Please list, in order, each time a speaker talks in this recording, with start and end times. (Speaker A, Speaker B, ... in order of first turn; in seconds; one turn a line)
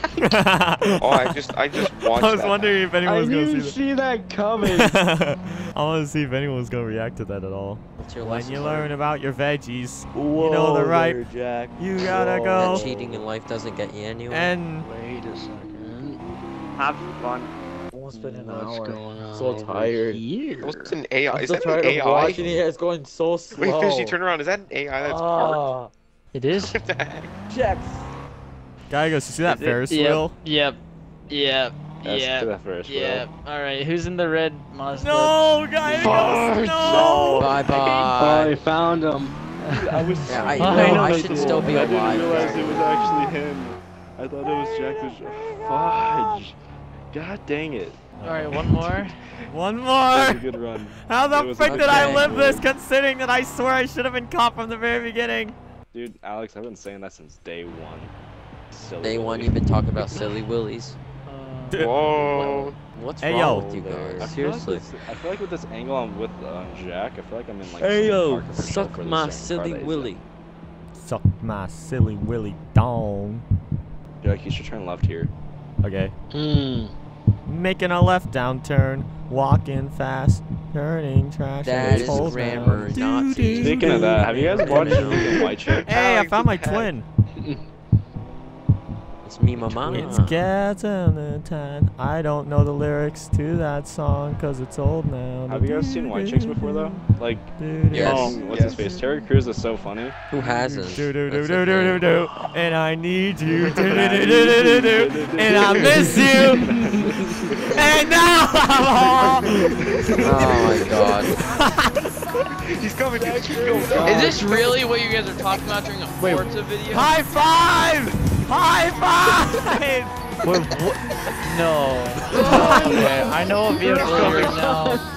Speaker A: 0.2-3.8
Speaker B: 1.0-2.8
Speaker C: 3.0-5.0
Speaker A: 4.7-11.3
Speaker D: 8.0-8.9
Speaker E: 10.1-13.2
Speaker A: 11.8-12.9
Speaker D: 12.6-14.6
Speaker A: 14.3-14.9
Speaker C: 14.8-16.2
Speaker F: 16.8-17.5
Speaker E: 17.9-20.2
Speaker D: 18.2-19.9
Speaker C: 18.5-19.1
Speaker C: 20.2-21.0
Speaker B: 20.6-22.6
Speaker E: 21.3-24.1
Speaker B: 23.5-25.7
Speaker E: 25.0-25.9
Speaker G: 26.3-26.8
Speaker B: 26.6-27.3
Speaker E: 27.5-28.0
Speaker A: 28.9-30.4
Speaker F: 29.5-29.9
Speaker G: 29.9-36.2
Speaker H: 32.0-33.3
Speaker A: 34.9-37.5
Speaker H: 36.0-37.2
Speaker D: 36.9-38.6
Speaker F: 37.0-37.5
Speaker H: 37.9-38.1
Speaker C: 38.2-39.4
Speaker G: 39.6-41.8
Speaker H: 39.7-46.6
Speaker D: 40.2-43.0
Speaker D: 45.8-46.3
Speaker H: 47.1-48.6
Speaker A: 48.2-48.6
Speaker G: 48.2-49.2
Speaker A: 49.5-55.6
Speaker H: 50.1-52.7
Speaker D: 51.6-52.4
Speaker H: 55.9-58.1
Speaker H: 58.7-59.6
Speaker D: 59.0-61.0
Speaker G: 60.1-60.4
Speaker G: 61.3-62.1
Speaker A: 61.7-62.0
Speaker B: 61.8-62.7
Speaker D: 62.1-64.9
Speaker A: 63.2-63.7
Speaker E: 63.5-64.3
Speaker H: 64.2-70.2
Speaker D: 67.7-70.2
Speaker A: 71.0-73.4
Speaker H: 74.2-75.3
Speaker A: 75.8-76.1
Speaker C: 76.3-76.9
Speaker A: 77.5-87.1
Speaker D: 81.6-85.6
Speaker H: 81.9-82.7
Speaker H: 83.5-85.9
Speaker B: 85.6-86.9
Speaker D: 89.2-90.5
Speaker A: 89.7-97.0
Speaker H: 95.5-100.2
Speaker A: 97.6-99.0
Speaker D: 97.9-98.3
Speaker F: 98.1-98.4
Speaker B: 98.5-98.9
Speaker D: 100.3-102.1
Speaker A: 100.4-106.8
Speaker H: 103.5-107.9
Speaker C: 106.7-107.2
Speaker A: 107.8-112.1
Speaker H: 110.2-111.1
Speaker D: 110.2-111.3
Speaker B: 112.8-114.2
Speaker H: 113.1-114.7
Speaker C: 113.6-114.8
Speaker I: 114.0-117.1
Speaker A: 116.9-120.6
Speaker G: 120.5-120.8
Speaker G: 121.4-125.0
Speaker A: 122.4-123.0
Speaker C: 122.4-123.3
Speaker C: 123.9-124.9
Speaker I: 124.0-124.6
Speaker H: 124.1-124.5